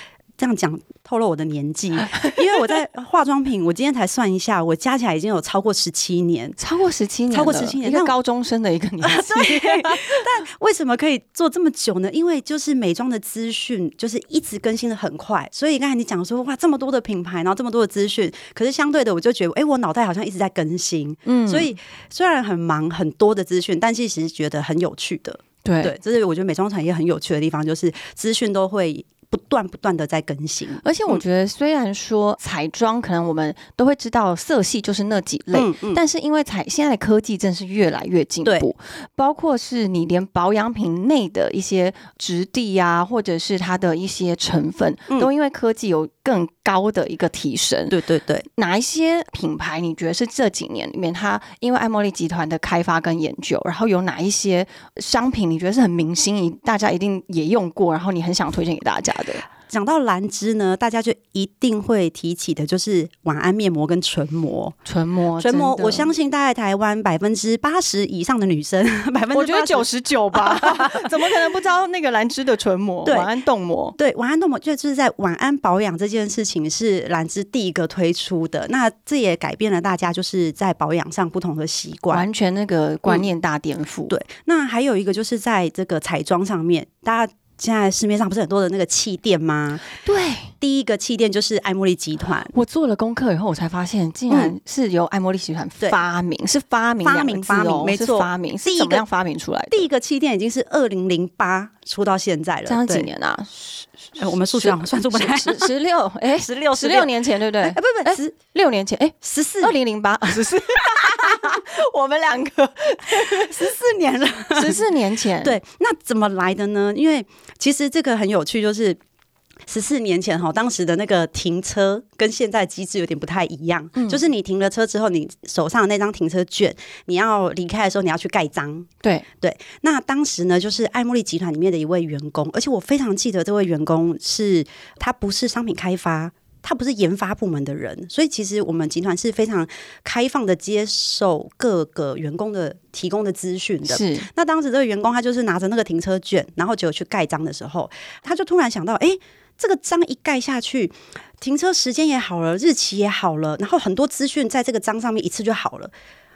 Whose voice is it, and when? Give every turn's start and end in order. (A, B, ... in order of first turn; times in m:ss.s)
0:00.4-0:06.6 A
0:06.6-0:10.3 B
0:07.3-0:08.1 A
0:09.0-0:31.2 A
0:21.3-0:21.7 B
0:25.6-0:25.9 B
0:30.8-0:48.0 B
0:35.5-0:36.0 A
0:47.9-0:48.4 A
0:48.5-0:59.5 B
0:59.7-1:04.8 A
1:04.8-1:06.1 B
1:05.4-1:11.2 A
1:09.3-1:14.0 B
1:13.0-1:13.3 A
1:14.0-1:22.2 A
1:22.1-1:24.2 B
1:24.1-1:29.8 A
1:30.0-1:30.5 B
1:30.6-1:32.5 A
1:32.5-1:39.8 B
1:34.3-1:34.5 A
1:37.0-1:39.0 A
1:39.7-1:43.1 A
1:42.6-1:53.7 B
1:44.2-1:45.7 A
1:46.4-1:48.4 A
1:49.2-1:49.7 A
1:50.4-1:51.5 A
1:53.1-1:54.8 A
1:54.5-1:55.6 B
1:55.4-1:59.0 A
1:59.7-2:08.9 A
2:04.0-2:04.2 B
2:09.4-2:35.9 A
2:23.9-2:24.3 B